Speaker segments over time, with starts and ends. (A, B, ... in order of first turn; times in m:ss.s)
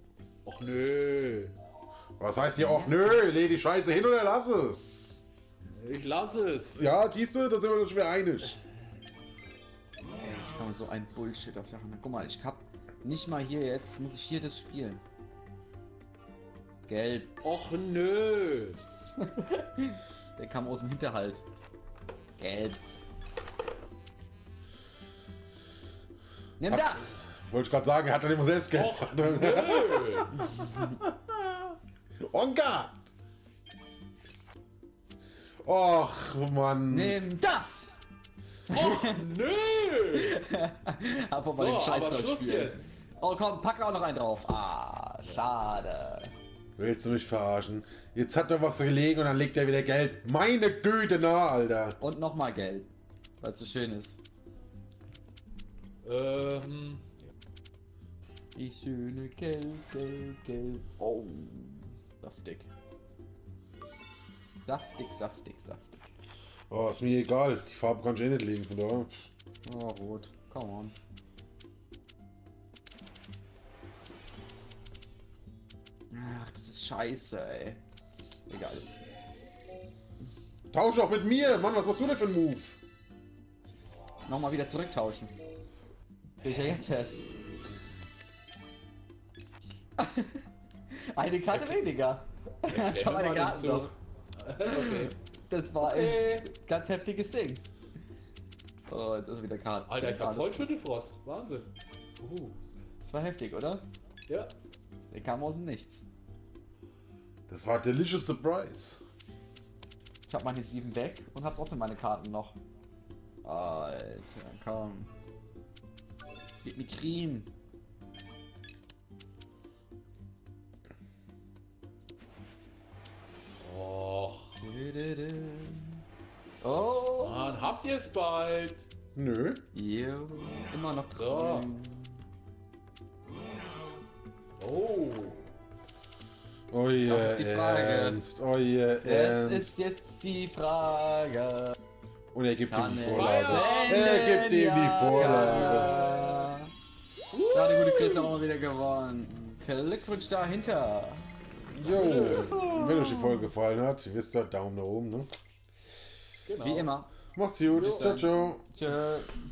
0:00.4-0:01.6 A
0:02.2-0:05.2 B
0:02.6-0:03.2 C
0:05.7-0:06.8 A
0:06.7-0:08.6 B
0:10.3-0:15.0 C
0:16.9-0:17.3 C
0:17.4-0:18.8 A
0:19.2-0:21.4 C
0:22.4-0:22.8 C
0:26.6-0:27.2 C
0:26.7-0:31.4 B
0:28.7-0:30.4 A
0:30.6-0:30.9 C
0:32.2-0:33.0 B
0:35.6-0:37.2 B
0:36.9-0:38.0 C
0:38.7-0:39.2 C
0:38.7-0:40.4 A
0:40.1-0:46.3 C
0:41.5-0:43.1 A
0:46.8-0:52.0 B
0:52.0-0:54.2 C
0:56.0-0:57.0 A
0:58.6-1:02.7 C
1:04.6-1:06.0 C
1:06.7-1:09.3 B
1:09.6-1:11.0 C
1:16.1-1:17.8 C
1:18.5-1:18.9 C
1:20.7-1:22.8 B
1:24.3-1:25.3 C
1:26.4-1:27.2 C
1:30.0-1:33.9 C
1:31.5-1:31.8 A
1:32.6-1:35.2 A
1:34.6-1:37.6 C
1:35.8-1:36.5 A
1:38.9-1:40.7 C
1:39.9-1:42.6 A
1:43.0-1:43.8 C
1:44.3-1:44.5 A
1:45.1-1:46.0 C
1:47.5-1:49.0 B
1:50.3-1:52.6 C
1:53.4-1:55.1 C
1:56.6-1:57.5 C
2:03.6-2:04.6 A
2:04.6-2:06.0 C
2:06.6-2:07.7 C
2:07.2-2:08.9 A
2:09.2-2:09.6 B
2:09.7-2:12.2 C
2:11.2-2:11.7 A
2:14.6-2:15.5 A
2:16.7-2:19.9 B
2:17.0-2:18.2 C
2:19.0-2:21.8 C
2:22.3-2:26.0 B
2:22.7-2:26.7 C
2:23.0-2:24.1 A
2:25.0-2:26.5 A
2:27.3-2:28.3 A
2:27.5-2:31.3 C
2:31.7-2:35.3 B
2:31.8-2:32.6 A
2:32.1-2:33.5 C
2:36.5-2:36.9 A
2:36.6-2:37.1 C
2:37.4-2:38.6 B
2:37.7-2:38.3 A
2:37.8-2:39.4 C